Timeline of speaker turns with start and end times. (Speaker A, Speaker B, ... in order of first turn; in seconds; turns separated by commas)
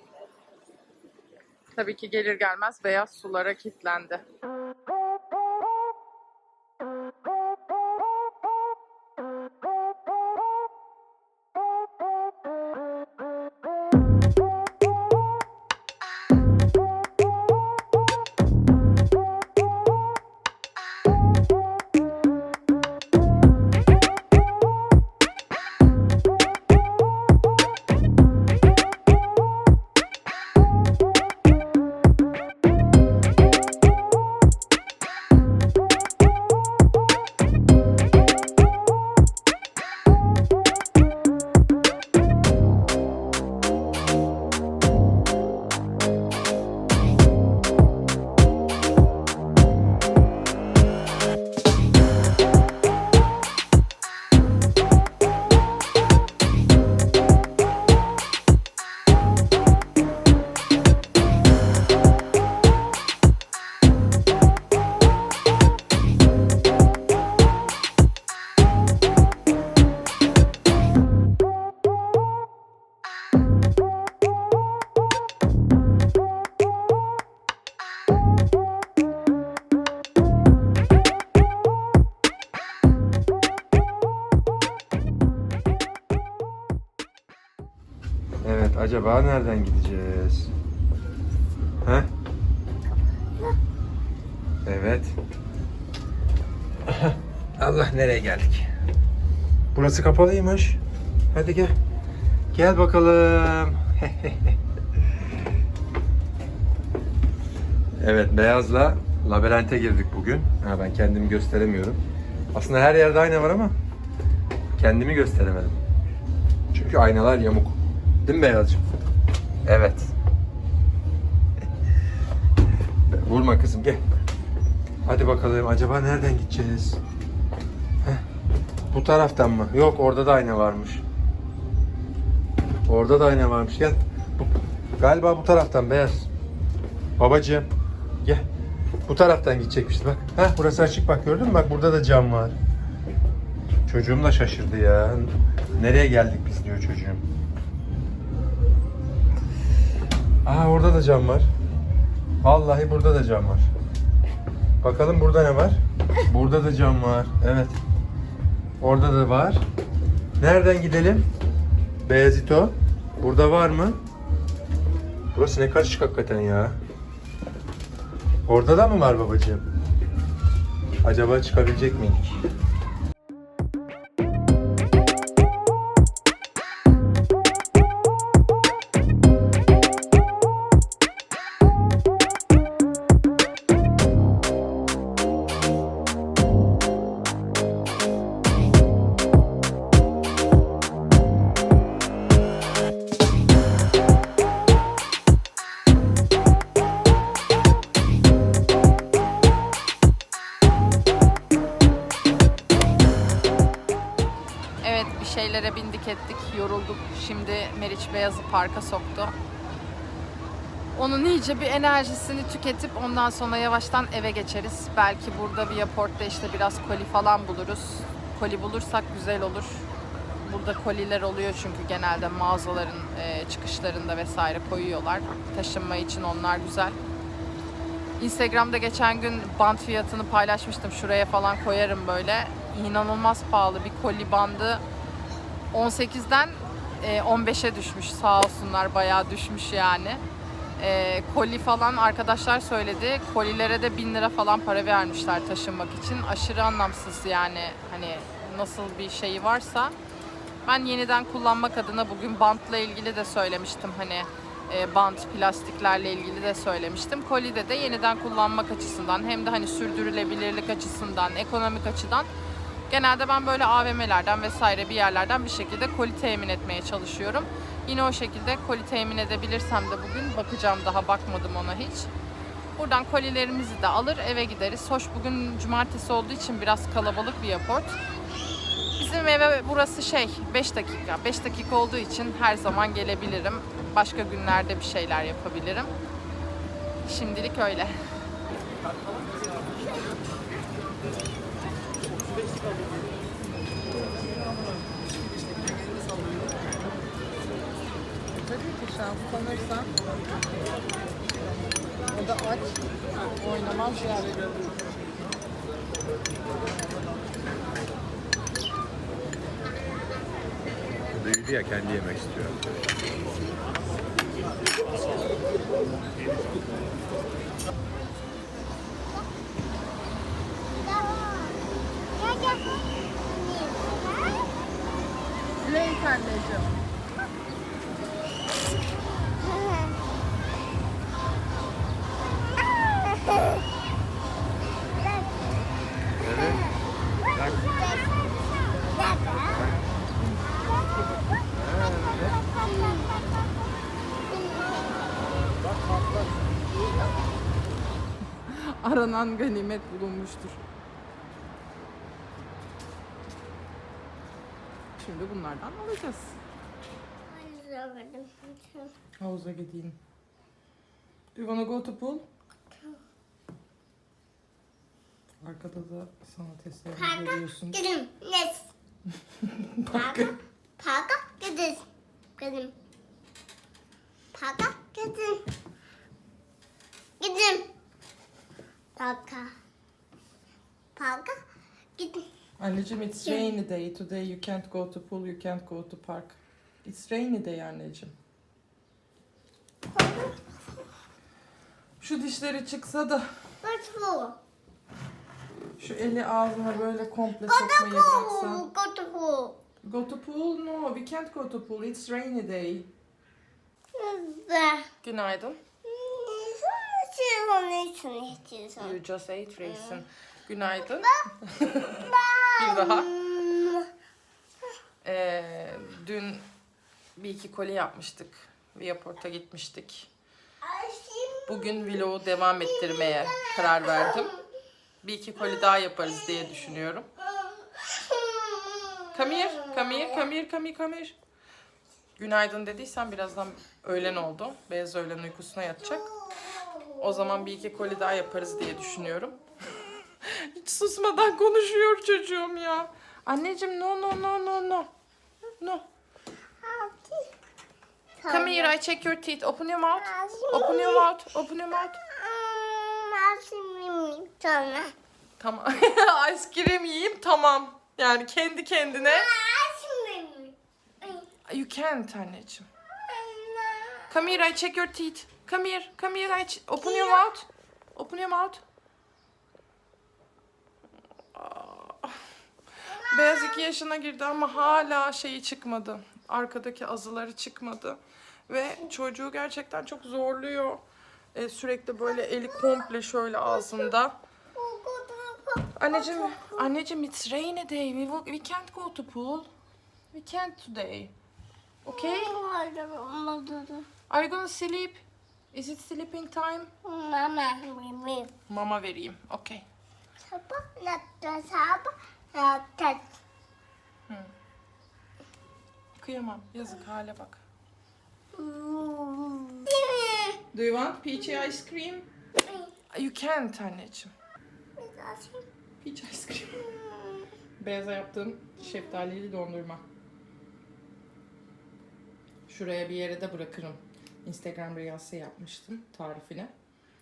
Speaker A: 1.7-4.2, Speaker B: 88.4-90.5, Speaker B: 91.8-92.1, Speaker B: 94.6-95.2, Speaker B: 96.8-98.7, Speaker B: 99.7-100.8, Speaker B: 101.3-101.8, Speaker B: 102.5-104.6, Speaker B: 108.0-112.0, Speaker B: 112.5-113.7, Speaker B: 114.8-115.8, Speaker B: 116.7-118.9, Speaker B: 119.6-120.1, Speaker B: 123.1-124.0, Speaker B: 125.0-127.0, Speaker B: 128.9-131.0, Speaker B: 132.8-136.3, Speaker B: 137.2-137.7, Speaker B: 139.1-142.6, Speaker B: 143.8-147.2, Speaker B: 150.4-151.5, Speaker B: 152.4-153.7, Speaker B: 154.8-157.8, Speaker B: 158.8-159.6, Speaker B: 160.4-161.2, Speaker B: 162.0-164.0, Speaker B: 165.3-166.8, Speaker B: 168.4-169.6, Speaker B: 171.0-172.4, Speaker A: 204.8-209.3, Speaker A: 210.9-219.8, Speaker A: 220.4-227.0, Speaker A: 228.2-234.8, Speaker A: 235.7-240.2, Speaker A: 240.8-249.9, Speaker A: 250.6-262.3, Speaker A: 262.9-272.1, Speaker A: 272.8-278.0, Speaker A: 279.0-285.9, Speaker A: 287.0-288.0, Speaker A: 298.3-299.9, Speaker A: 302.1-302.8, Speaker A: 303.4-304.5, Speaker B: 311.1-312.6, Speaker C: 320.8-321.6, Speaker C: 322.1-324.5, Speaker A: 325.6-326.8, Speaker C: 329.4-329.9, Speaker C: 333.1-333.5, Speaker B: 336.2-336.6, Speaker B: 337.3-337.6, Speaker C: 337.5-338.1, Speaker C: 338.9-339.6, Speaker B: 339.6-339.8, Speaker B: 341.6-342.4, Speaker C: 342.5-343.1, Speaker C: 344.3-344.7, Speaker A: 348.4-350.6, Speaker A: 355.0-356.4, Speaker C: 357.3-358.9, Speaker A: 359.2-360.0, Speaker A: 361.3-362.3, Speaker A: 365.4-367.8, Speaker C: 367.0-368.7, Speaker A: 369.4-370.3, Speaker C: 369.9-371.8, Speaker C: 372.4-372.7, Speaker C: 374.3-375.5, Speaker C: 377.2-377.7, Speaker C: 378.9-379.5, Speaker C: 380.9-381.4, Speaker C: 381.9-382.2, Speaker A: 382.6-388.1, Speaker C: 389.9-390.3, Speaker A: 392.0-393.3, Speaker C: 393.6-394.4, Speaker A: 395.8-398.7, Speaker C: 397.5-399.6, Speaker A: 399.8-402.9, Speaker C: 403.9-404.9, Speaker A: 405.0-405.6, Speaker C: 405.8-408.9, Speaker A: 408.8-413.1, Speaker C: 409.6-410.0, Speaker C: 411.9-413.9, Speaker A: 415.0-416.5, Speaker A: 417.1-420.1, Speaker C: 420.6-421.8, Speaker A: 421.4-424.3, Speaker C: 423.1-424.0, Speaker A: 425.0-427.1, Speaker C: 427.2-430.1, Speaker A: 429.1-431.1, Speaker A: 432.2-436.1, Speaker C: 436.1-436.9, Speaker A: 437.0-444.9, Speaker A: 445.6-445.8, Speaker C: 446.6-447.3, Speaker C: 448.2-448.7, Speaker A: 448.3-452.0, Speaker C: 449.9-451.1, Speaker C: 452.0-454.9, Speaker A: 455.4-459.3, Speaker C: 458.9-461.2, Speaker A: 461.5-462.6, Speaker C: 463.1-464.1, Speaker A: 464.1-468.6, Speaker C: 466.8-467.2, Speaker A: 471.3-472.2, Speaker A: 472.9-480.8, Speaker A: 481.3-484.1, Speaker C: 484.6-486.6, Speaker A: 485.8-489.5, Speaker A: 490.1-491.1, Speaker A: 491.8-492.4, Speaker C: 491.9-493.9, Speaker A: 494.1-496.7, Speaker C: 496.8-498.3, Speaker A: 498.5-499.6, Speaker C: 500.2-503.1, Speaker A: 505.9-507.4, Speaker C: 508.3-510.4, Speaker A: 510.5-512.1, Speaker A: 512.9-514.1, Speaker C: 514.8-515.4, Speaker A: 515.8-516.7, Speaker C: 516.7-517.1, Speaker A: 517.6-519.8, Speaker A: 522.5-526.5